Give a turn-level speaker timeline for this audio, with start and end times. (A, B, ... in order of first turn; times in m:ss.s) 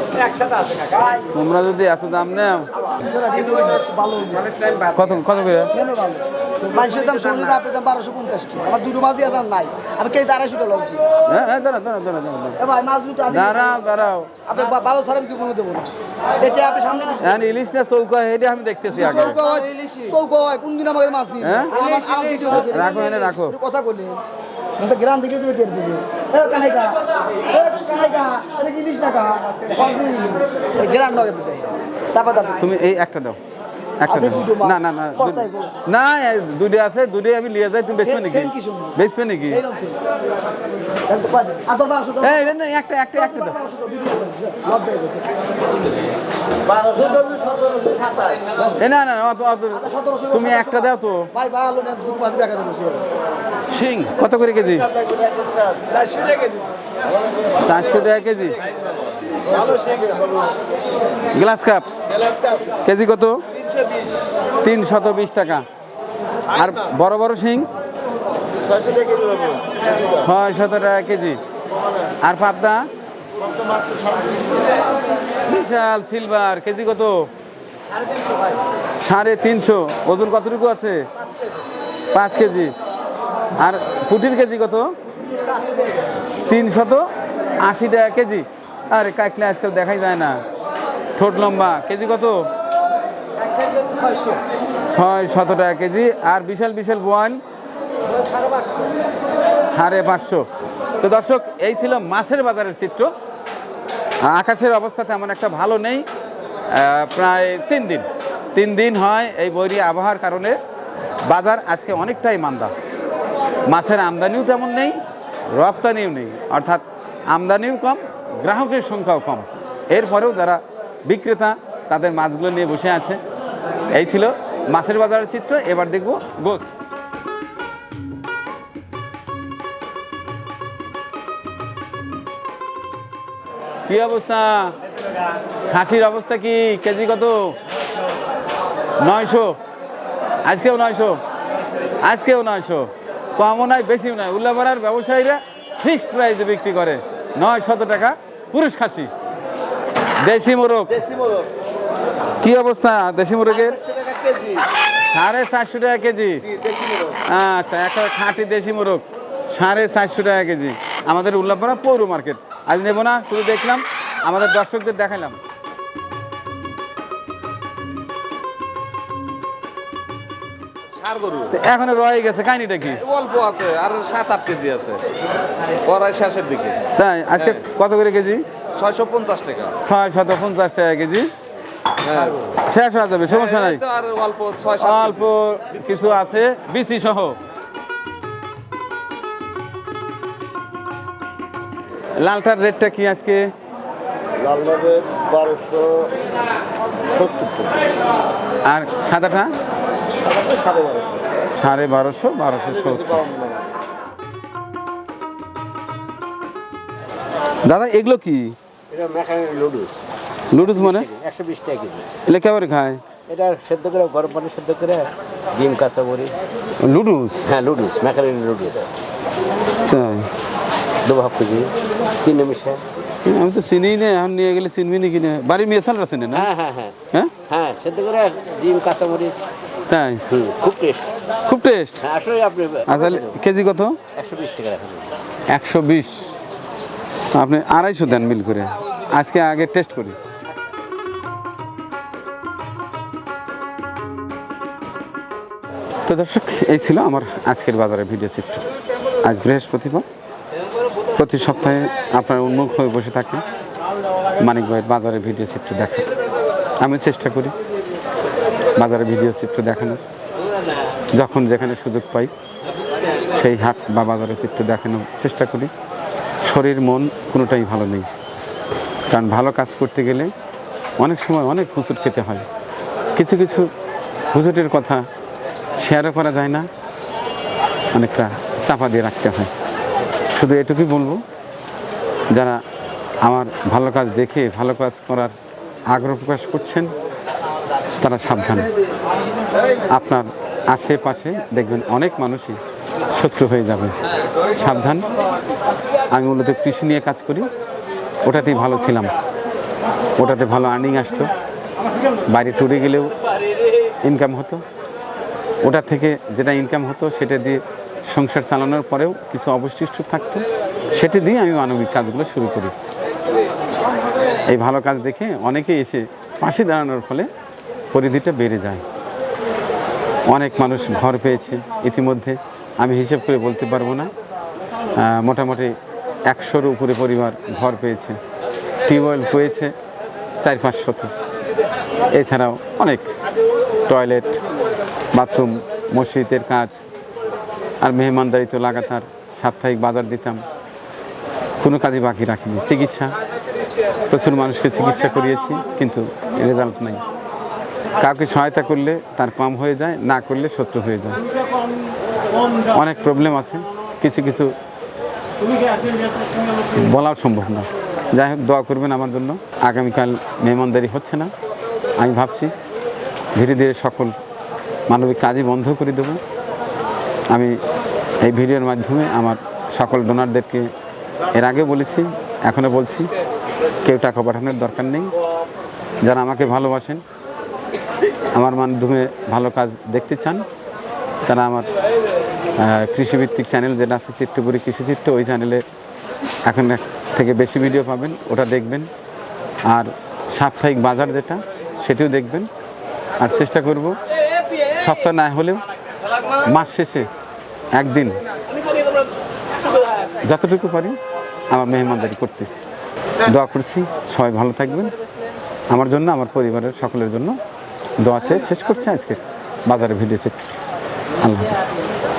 0:00.3-0:00.9 A
0:01.3-0:02.7 B
0:03.0-0:04.7 C
0:04.9-0:05.7 B
0:05.7-0:11.0 C
0:11.3-0:12.6 B
0:12.6-0:13.7 C
0:13.3-0:14.3 B
0:14.5-0:17.3 C
0:17.2-0:19.4 B
0:18.9-0:24.2 C
0:19.4-0:20.1 A
0:21.4-0:21.8 B
0:22.5-0:23.6 B
0:24.8-0:32.6 C
0:32.6-0:33.4 B
0:34.0-0:39.6 B
0:34.1-0:35.7 C
0:38.0-0:39.0 C
0:39.5-0:40.0 C
0:41.1-0:42.5 C
0:42.2-0:43.6 B
0:43.3-0:45.4 C
0:47.0-0:47.4 A
0:48.8-0:51.3 B
0:49.8-0:53.1 C
0:53.7-0:54.9 B
0:55.9-0:56.3 A
0:57.6-0:58.6 B
0:59.6-1:00.2 A
1:01.3-1:01.9 B
1:02.8-1:03.4 B
1:04.6-1:05.6 B
1:06.5-1:07.7 B
1:08.8-1:09.6 A
1:10.0-1:11.4 B
1:12.2-1:12.9 B
1:15.5-1:17.3 B
1:19.0-1:21.1 B
1:22.1-1:22.7 B
1:23.6-1:24.9 B
1:26.4-1:27.0 B
1:27.6-1:30.4 B
1:31.2-1:32.5 B
1:33.8-1:34.4 A
1:34.9-1:37.4 B
1:39.7-1:40.4 B
1:41.0-1:43.1 B
1:44.2-1:46.1 B
1:46.7-1:50.6 B
1:51.3-1:52.7 B
1:53.7-1:55.0 B
1:55.5-2:03.2 B
2:03.9-2:06.7 B
2:13.9-2:14.8 B
2:15.7-2:17.6 B
2:19.0-2:19.6 B
2:20.4-2:21.2 B
2:22.0-2:29.1 B
2:30.2-2:31.0 B
2:32.4-2:33.8 B
2:34.0-2:34.4 A
2:35.1-2:36.5 B
2:37.3-2:45.4 B
2:51.0-2:51.5 D
2:51.5-2:53.1 B
2:53.1-2:55.0 D
2:55.8-2:56.8 D
2:57.0-2:58.4 B
2:58.8-2:59.7 D
2:59.8-3:01.3 B
3:02.0-3:02.4 D
3:02.6-3:03.8 B
3:03.4-3:05.0 D
3:04.8-3:07.4 B
3:12.2-3:13.5 B
3:14.5-3:16.1 D
3:17.5-3:17.7 D
3:18.6-3:19.5 B
3:21.6-3:23.4 B
3:27.6-3:28.6 B
3:28.9-3:30.0 D
3:28.9-3:30.0 E
3:30.5-3:31.1 B
3:31.0-3:32.1 E
3:31.7-3:32.0 D
3:32.3-3:33.0 B
3:33.3-3:36.3 E
3:33.3-3:35.8 D
3:36.8-3:37.5 B
3:37.5-3:38.8 E
3:37.6-3:38.1 D
3:39.9-3:40.3 B
3:41.1-3:41.4 D
3:41.1-3:41.7 E
3:42.2-3:42.8 D
3:42.3-3:42.7 E
3:43.2-3:46.5 B
3:46.4-3:46.9 E
3:46.6-3:46.9 D
3:47.5-3:49.4 D
3:47.5-3:49.4 E
3:49.9-3:50.2 B
3:50.3-3:50.9 D
3:50.3-3:51.1 E
3:51.4-3:52.0 B
3:52.0-3:53.2 E
3:52.1-3:53.1 D
3:52.9-3:54.0 B
3:54.2-3:55.0 E
3:54.2-3:55.0 D
3:55.5-3:56.3 B
3:57.4-4:00.2 B
4:06.1-4:08.7 B
4:09.2-4:10.1 B
4:11.1-4:13.4 B
4:14.4-4:16.0 B
4:16.8-4:17.5 B
4:18.8-4:20.0 B
4:21.2-4:22.3 B
4:23.3-4:25.7 B
4:26.4-4:28.1 B
4:29.1-4:30.3 B
4:31.0-4:32.4 B
4:33.2-4:33.7 B
4:34.3-4:35.0 B
4:35.8-4:36.7 B
4:37.9-4:39.5 B
4:40.3-4:41.2 B
4:42.3-4:42.6 B
4:43.2-4:45.3 B
4:45.9-4:46.9 B
4:48.0-4:48.7 B
4:49.9-4:52.6 B
4:53.1-4:55.1 B
4:56.1-4:57.5 B
4:58.2-4:59.2 B
5:00.2-5:01.3 B
5:02.3-5:03.2 B
5:03.9-5:04.6 B
5:05.6-5:12.7 B
5:14.5-5:17.3 B
5:17.9-5:18.8 B
5:20.3-5:24.1 B
5:25.0-5:25.8 B
5:26.3-5:28.2 B
5:28.8-5:29.7 B
5:30.4-5:31.1 B
5:32.1-5:33.1 B
5:33.9-5:34.4 B
5:35.1-5:36.8 B
5:37.8-5:40.4 B
5:41.6-5:43.2 B
5:44.1-5:47.0 B
5:48.0-5:51.2 B
5:52.7-5:54.5 B
5:56.7-6:01.3 B
6:02.0-6:02.5 B
6:03.4-6:04.2 B
6:04.9-6:06.2 B
6:08.2-6:10.7 B
6:11.3-6:13.1 B
6:13.8-6:15.1 B
6:16.0-6:17.0 B
6:18.3-6:20.4 B
6:21.3-6:21.7 B
6:22.6-6:25.6 B
6:26.5-6:28.9 B
6:29.7-6:32.5 B
6:33.2-6:34.0 B
6:34.8-6:35.6 B
6:36.4-6:37.1 B
6:37.7-6:38.2 B
6:40.2-6:41.0 B
6:41.5-6:42.5 B
6:43.2-6:44.9 B
6:45.7-6:47.4 B
6:48.0-6:50.6 B
6:51.2-6:51.6 B